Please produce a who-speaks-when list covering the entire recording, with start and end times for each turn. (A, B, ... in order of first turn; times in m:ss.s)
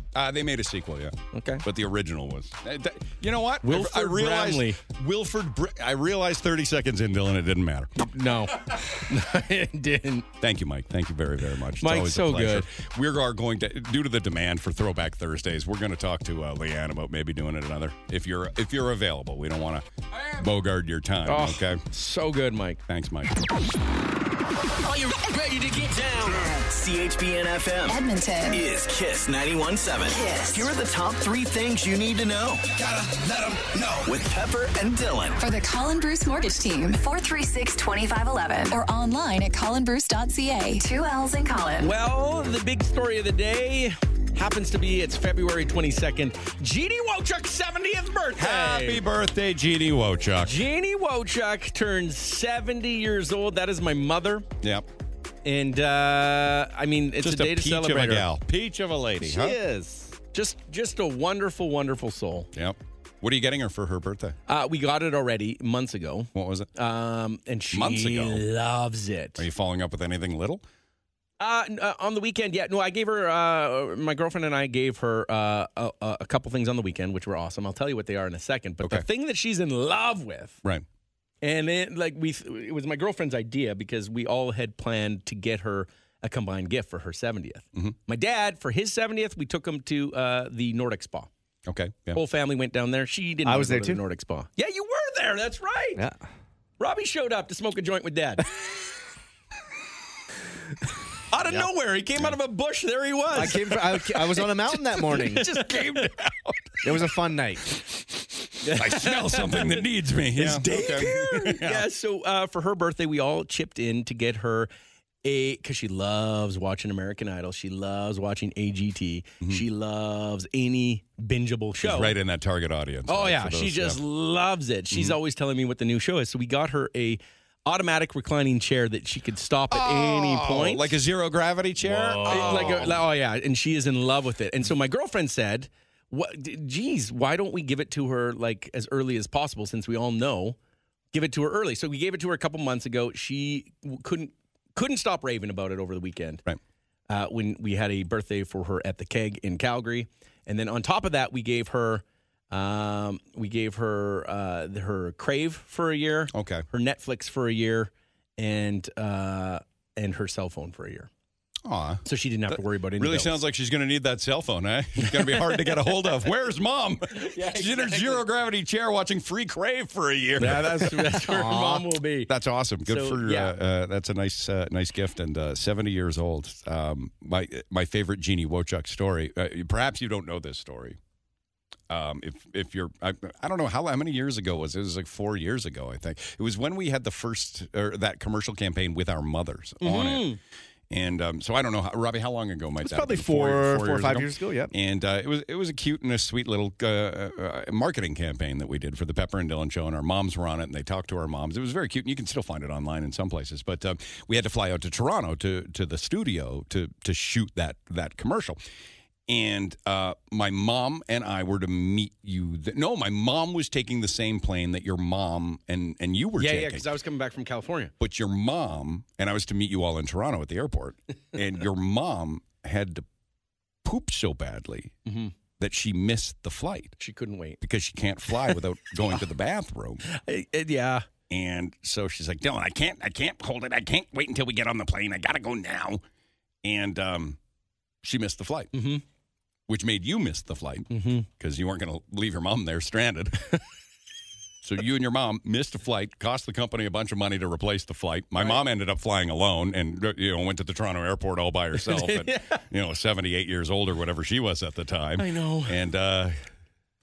0:00.1-0:07.9 A
0:01.3-0:01.6 B
0:03.6-0:04.8 B
0:08.0-0:10.2 B
0:10.4-0:19.8 A
0:11.8-0:12.7 B
0:20.4-0:21.8 A
0:21.2-0:22.8 B
0:22.9-0:23.5 A
0:24.8-0:35.4 C
0:27.9-0:28.6 D
0:30.1-0:30.7 D
0:35.4-0:41.9 D
0:41.8-0:49.0 B
0:48.4-0:50.6 A
0:50.4-0:54.5 B
0:55.4-0:58.3 B
0:57.2-0:59.6 A
0:59.2-1:00.2 E
1:00.3-1:02.5 B
1:02.5-1:04.4 A
1:04.5-1:09.4 B
1:06.3-1:06.7 A
1:07.7-1:08.4 A
1:09.4-1:10.6 A
1:11.4-1:20.6 B
1:21.4-1:31.3 B
1:31.6-1:32.2 A
1:32.1-1:36.0 B
1:33.4-1:34.0 E
1:36.0-1:36.2 E
1:36.8-1:38.5 B
1:41.3-1:46.1 B
1:43.3-1:45.5 E
1:45.6-1:46.3 A
1:46.8-1:47.7 E
1:48.6-1:54.7 B
1:48.8-1:51.9 A
1:55.2-2:02.2 B
2:01.8-2:04.0 A
2:03.1-2:11.0 B
2:04.9-2:05.2 A
2:09.7-2:13.0 A
2:11.8-2:20.6 B
2:21.1-2:26.4 B
2:27.1-2:41.1 B
2:36.3-2:36.6 A
2:41.6-2:51.2 A
2:42.0-2:43.4 B
2:45.0-2:46.1 B
2:47.1-2:48.3 B
2:50.4-2:52.3 B
2:51.2-2:51.8 E
2:52.3-3:01.0 A
2:52.8-2:53.6 B
3:01.9-3:10.4 A
3:09.8-3:10.4 B
3:10.9-3:28.6 A
3:12.8-3:14.7 E
3:29.3-3:36.9 A
3:36.4-3:37.9 B
3:38.0-3:43.0 A
3:43.8-3:44.9 A
3:45.0-3:45.3 B
3:45.6-3:46.9 A
3:47.0-3:47.6 B
3:47.6-3:50.0 A
3:50.1-3:51.1 B
3:51.3-3:56.0 A
3:56.6-3:57.4 A
3:58.0-3:58.7 A
3:58.7-3:59.0 B
3:59.7-4:03.4 A
4:00.9-4:01.2 B
4:04.6-4:16.3 A
4:08.4-4:08.6 B
4:11.7-4:12.6 B
4:15.2-4:15.8 B